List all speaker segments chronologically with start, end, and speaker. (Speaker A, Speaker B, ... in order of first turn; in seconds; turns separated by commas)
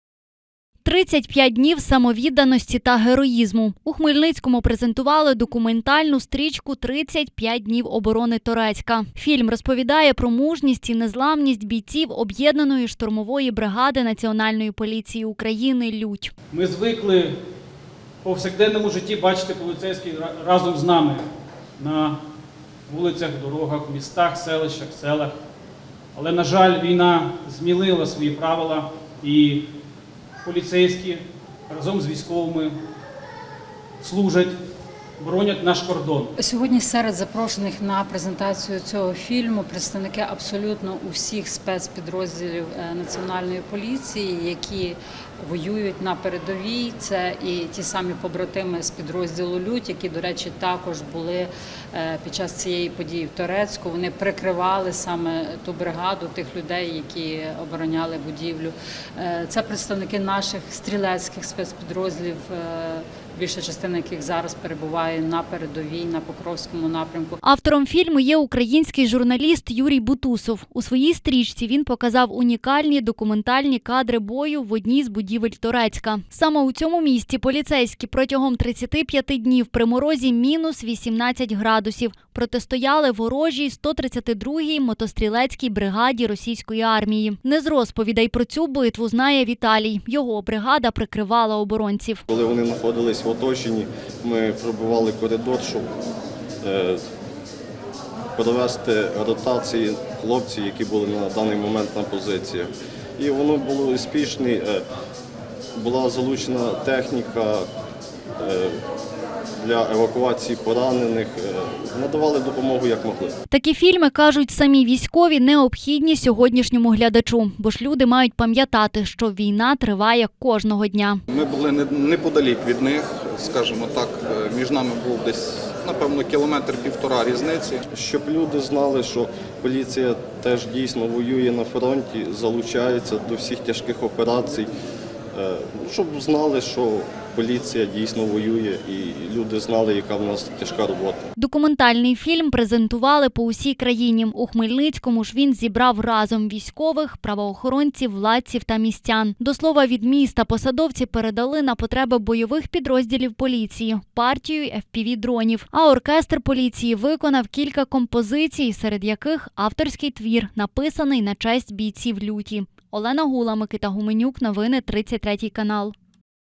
Speaker A: 0.8-16.3, Speaker B: 16.5-17.4, Speaker B: 18.2-21.3, Speaker B: 21.8-22.2, Speaker B: 22.9-25.4, Speaker B: 26.2-29.7, Speaker B: 30.4-32.8, Speaker B: 34.0-34.6, Speaker B: 35.2-36.3, Speaker C: 36.4-67.4, Speaker A: 67.4-92.2, Speaker D: 92.3-95.9, Speaker D: 96.6-97.0, Speaker D: 98.4-104.8, Speaker D: 105.8-107.6, Speaker D: 108.4-108.7, Speaker D: 109.6-113.3, Speaker A: 113.5-121.2, Speaker E: 121.3-127.8, Speaker D: 127.9-134.7, Speaker D: 135.3-141.2, Speaker A: 141.4-165.9